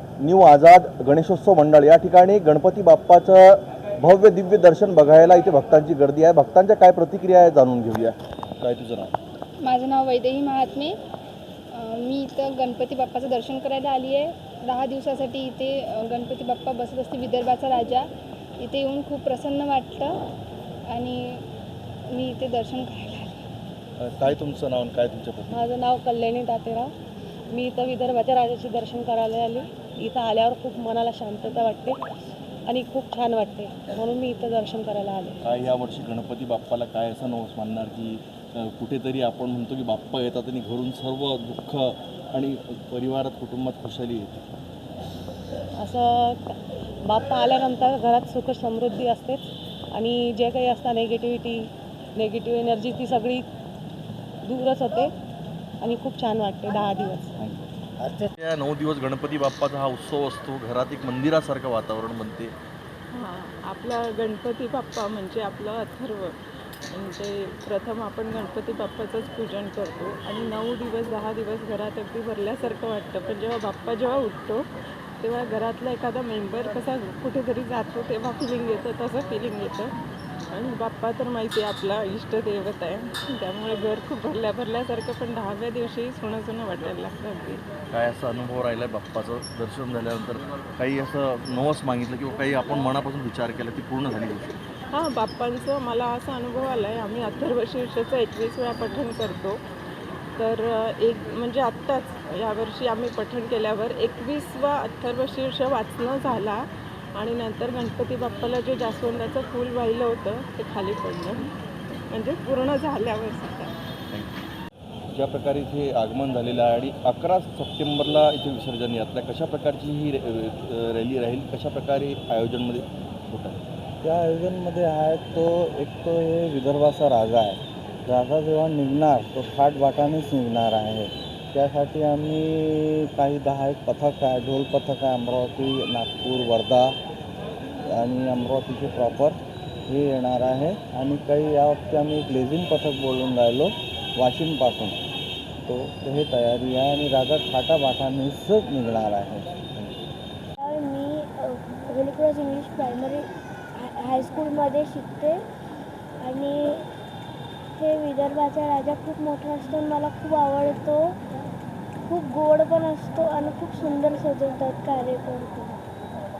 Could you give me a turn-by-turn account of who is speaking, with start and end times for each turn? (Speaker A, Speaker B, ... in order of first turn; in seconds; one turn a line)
Speaker A: 0.2-9.1
Speaker B: 9.6-10.9
Speaker B: 11.7-18.1
Speaker B: 18.6-20.1
Speaker B: 20.9-21.4
Speaker B: 22.1-23.4
Speaker A: 24.0-25.7
Speaker C: 25.5-26.9
Speaker C: 27.5-32.0
Speaker C: 32.7-35.4
Speaker A: 35.4-44.4
Speaker C: 45.8-53.5
Speaker C: 54.4-55.1
Speaker C: 55.8-57.4
Speaker A: 57.4-62.5
Speaker D: 63.1-66.3
Speaker D: 66.9-74.7
Speaker D: 75.2-79.9
Speaker D: 80.5-87.6
Speaker A: 87.9-94.5
Speaker D: 94.9-99.6
Speaker D: 100.4-111.5
Speaker D: 112.1-113.7
Speaker A: 115.1-123.6
Speaker E: 124.0-136.9
Speaker E: 137.8-145.0
Speaker E: 145.7-150.1
Speaker F: 150.6-155.4
Speaker F: 156.2-156.8
Speaker F: 157.8-161.2
Speaker F: 162.1-165.8